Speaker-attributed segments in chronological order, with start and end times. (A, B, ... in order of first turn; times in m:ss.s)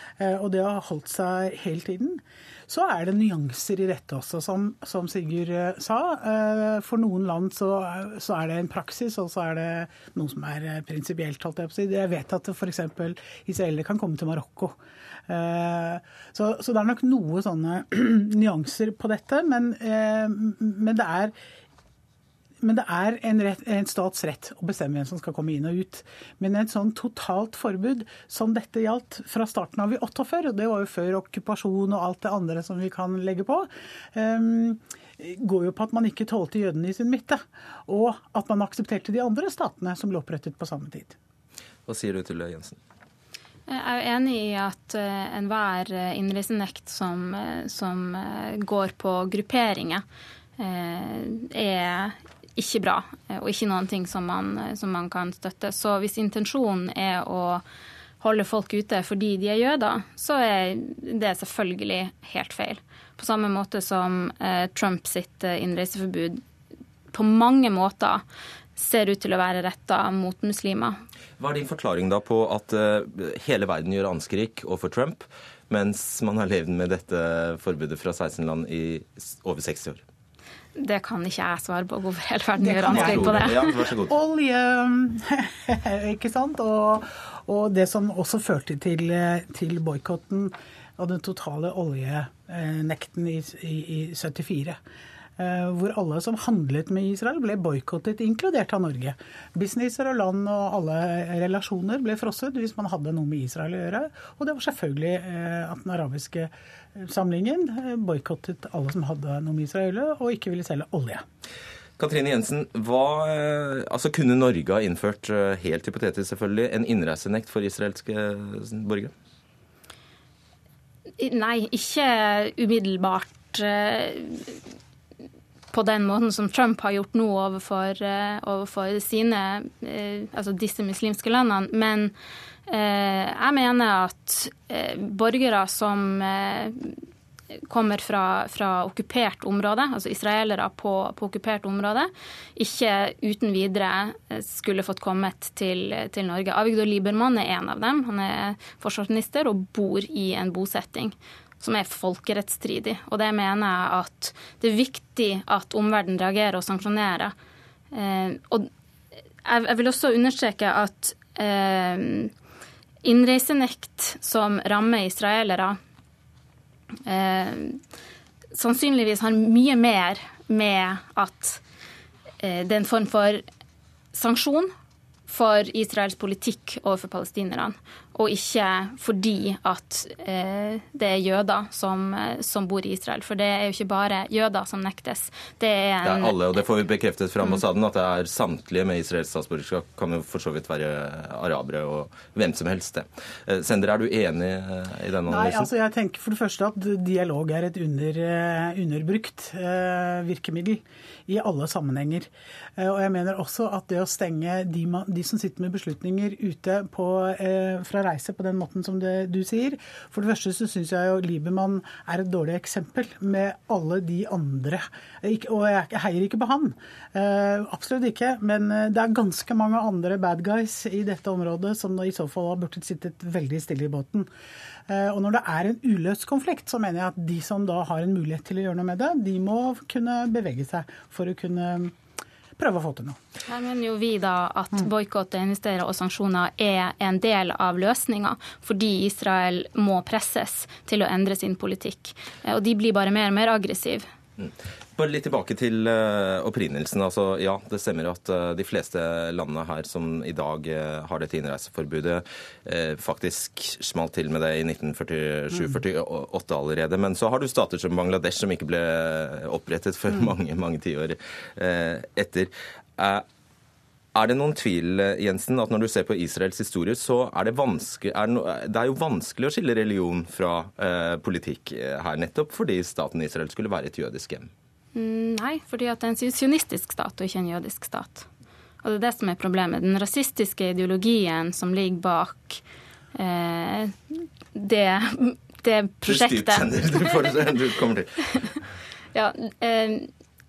0:00.2-0:14.8 A
0:15.3-0:21.3 A
0:22.6-0:41.2 A
0:41.9-0:42.8 B
0:43.7-0:50.0 C
0:50.6-0:57.6 C
0:58.2-1:06.4 C
1:07.1-1:08.2 C
1:08.8-1:11.0 C
1:11.4-1:20.0 B
1:20.8-1:23.8 C
1:22.6-1:34.8 A
1:22.8-1:24.2 B
1:35.4-1:51.2 A
1:52.0-1:59.1 B
2:01.2-2:04.6 C
2:05.7-2:12.1 C
2:12.7-2:17.0 C
2:17.7-2:37.3 C
2:37.9-2:38.7 C
2:39.4-2:42.3 C
2:43.0-2:45.8 C
2:47.1-2:47.8 C
2:48.5-2:51.6 C
2:52.4-2:53.4 C
2:54.1-2:54.7 C
2:55.3-3:06.4 C
3:06.0-3:15.7 B
3:15.3-3:44.3 A
3:44.9-3:51.9 A
3:52.6-3:53.2 A
3:53.5-4:04.1 C
4:04.4-4:23.2 B
4:24.2-4:34.5 B
4:35.0-4:38.3 C
4:38.8-4:42.6 C
4:43.2-4:47.4 C
4:46.1-4:48.1 B
4:49.1-4:50.1 C